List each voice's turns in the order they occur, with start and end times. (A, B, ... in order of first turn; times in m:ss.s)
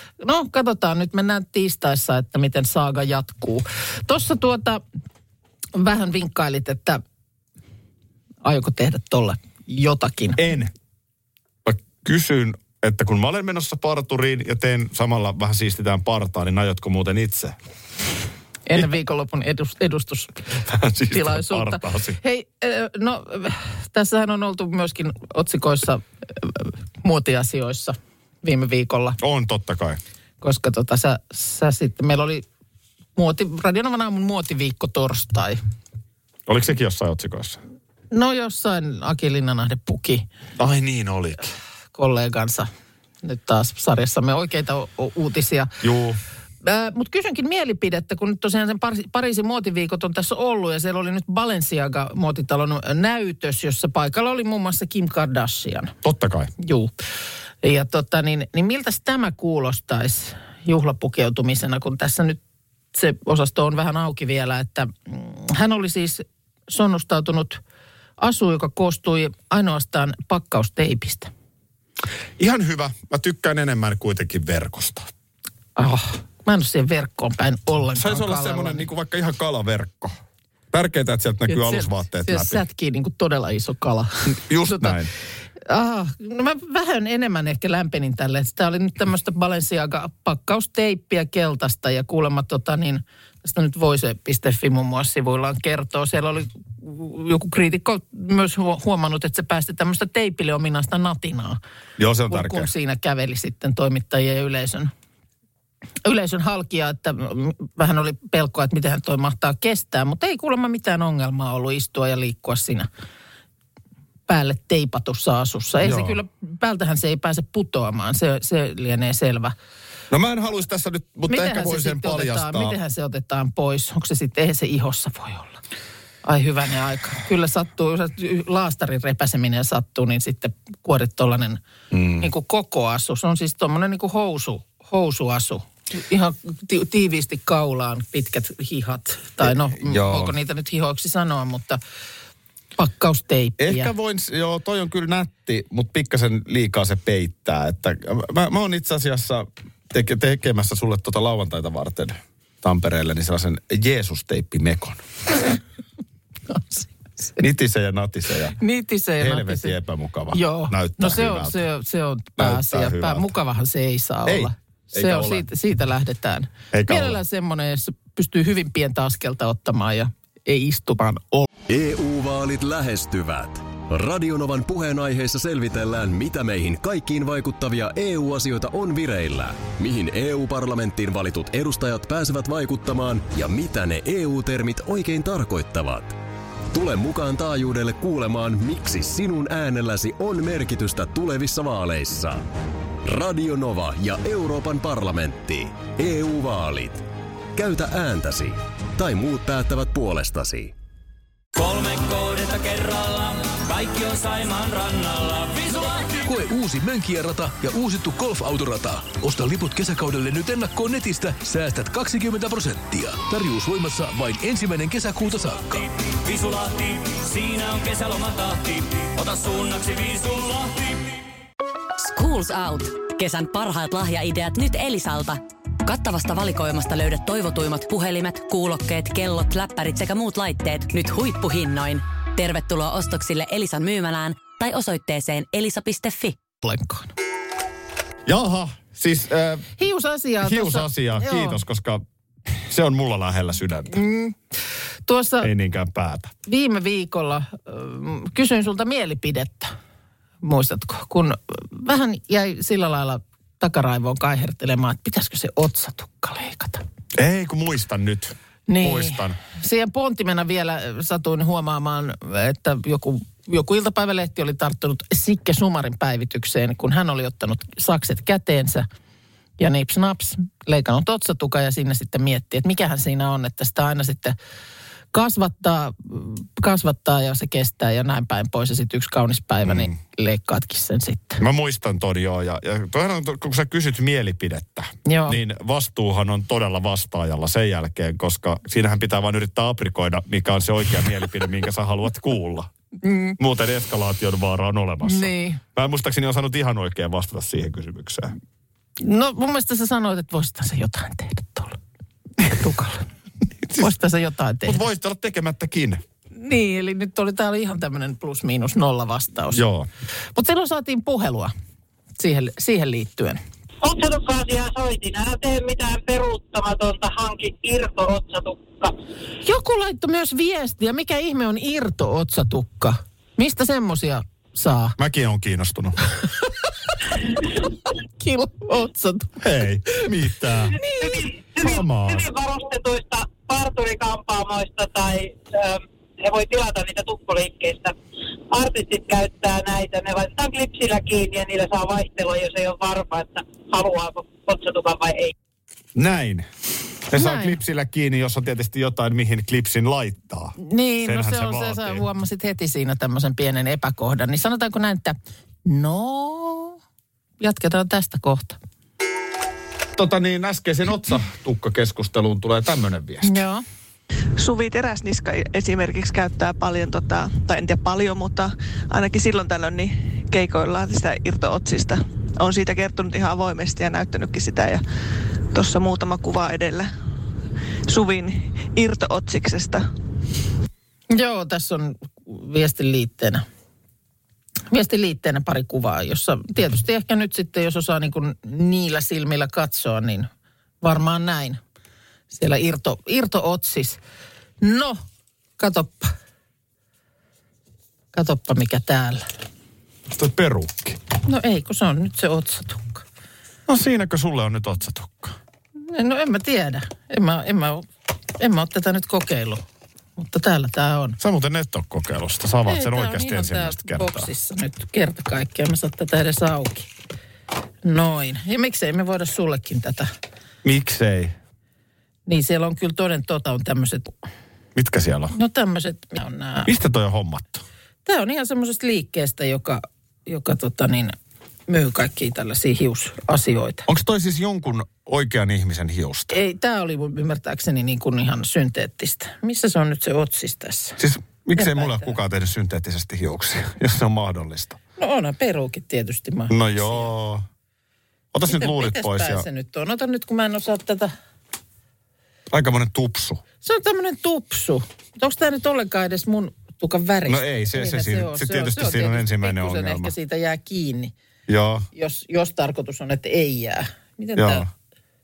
0:00.2-0:04.8 A
0:05.8-0:07.0 A
0:08.4-0:10.4 A
0:10.4-0:10.7 B
0:11.6-0:17.6 B
0:18.7-0:20.5 A
0:20.6-0:22.2 B
0:21.1-0:29.2 A
0:29.2-0:30.0 B
0:30.4-0:32.4 A
0:33.2-0:35.6 A
0:36.5-0:37.6 B
0:38.1-0:40.3 A
0:40.6-0:41.6 B
0:42.0-0:42.7 A
0:43.2-0:45.8 A
0:45.8-0:46.2 B
0:46.6-0:55.9 A
0:56.0-0:56.5 B
0:56.6-0:56.9 A
0:57.6-1:02.4 A
1:02.9-1:07.6 A
1:08.2-1:11.3 A
1:12.4-1:15.1 B
1:15.8-1:18.8 A
1:17.9-1:20.2 B
1:20.7-1:22.6 B
1:21.5-1:25.0 A
1:24.3-1:25.1 B
1:25.6-1:41.6 A
1:42.0-1:42.7 B
1:42.3-1:44.9 A
1:46.0-1:52.9 A
1:54.3-1:59.6 A
1:55.8-1:56.2 B
2:00.1-2:02.8 B
2:01.3-2:05.6 A
2:06.2-2:11.6 A
2:11.9-2:12.3 B
2:12.2-2:21.8 A
2:19.4-2:20.4 B
2:22.8-2:23.9 A
2:23.6-2:35.6 B
2:36.5-2:37.4 A
2:37.4-2:38.6 B
2:38.6-2:39.8 A
2:39.2-2:41.6 B
2:40.3-2:51.5 A
2:42.4-2:43.3 B
2:44.3-2:45.5 B
2:46.7-2:47.2 B
2:51.7-3:06.2 C
3:06.7-3:12.5 C
3:13.0-3:17.0 C
3:17.6-3:20.7 C
3:21.6-3:26.1 D
3:26.2-3:35.9 E
3:36.2-3:41.1 D
3:42.0-3:56.4 F
3:56.6-3:57.1 A
3:58.3-3:59.7 B
3:59.8-4:01.6 A
4:00.4-4:04.0 B
4:03.9-4:04.4 A
4:05.1-4:05.5 A
4:05.4-4:06.3 B
4:06.4-4:09.7 A
4:10.4-4:16.8 A
4:17.2-4:19.4 B
4:18.7-4:28.9 A
4:29.6-4:34.4 A
4:35.1-4:41.4 A
4:39.6-4:39.9 B
4:41.4-4:52.7 B
4:45.1-4:45.4 A
4:53.0-4:53.4 A
4:53.4-4:58.3 B
4:55.0-4:55.6 A
4:59.0-5:01.8 A
5:02.4-5:03.1 A
5:03.6-5:03.9 B
5:03.8-5:04.8 A
5:04.7-5:06.0 B
5:06.4-5:09.6 A
5:09.5-5:09.9 B
5:10.4-5:11.5 A
5:12.2-5:13.4 A
5:13.8-5:18.9 G
5:19.4-5:25.0 A
5:25.0-5:26.0 B
5:27.9-5:29.4 A
5:29.4-5:30.8 B
5:31.0-5:38.0 G
5:31.6-5:32.3 B
5:38.5-5:45.3 G
5:46.0-5:46.5 B
5:47.1-5:52.0 B
5:47.1-5:47.6 A
5:50.6-5:56.8 A
5:57.4-5:58.6 A
6:00.0-6:03.4 B
6:03.2-6:03.6 A
6:04.4-6:14.8 H
6:15.5-6:16.9 H
6:17.9-6:19.9 H
6:21.1-6:23.4 A
6:24.7-6:30.3 A
6:30.8-6:31.6 A
6:32.3-6:34.0 A
6:34.6-6:35.0 A
6:35.6-6:36.1 A
6:38.1-6:39.2 A
6:40.1-6:41.0 B
6:41.3-6:43.0 A
6:43.7-6:45.4 B
6:45.9-6:47.9 A
6:48.4-6:49.6 A
6:50.2-6:51.2 A
6:51.2-6:54.3 B
6:52.7-6:56.9 A
6:57.8-7:00.1 A
7:00.6-7:01.4 B
7:02.3-7:04.2 A
7:04.8-7:05.3 B
7:05.3-7:06.7 A
7:06.6-7:07.6 B
7:08.1-7:11.2 A
7:11.7-7:13.9 A
7:13.9-7:16.4 B
7:16.3-7:21.0 A
7:21.0-7:24.8 B
7:21.6-7:22.1 A
7:25.0-7:27.1 A
7:26.5-7:27.4 B
7:28.3-7:29.5 B
7:28.5-7:31.1 A
7:32.5-7:33.4 B
7:33.6-7:41.1 A
7:37.3-7:40.1 B
7:41.5-7:41.9 B
7:42.0-7:44.7 A
7:44.4-7:44.7 B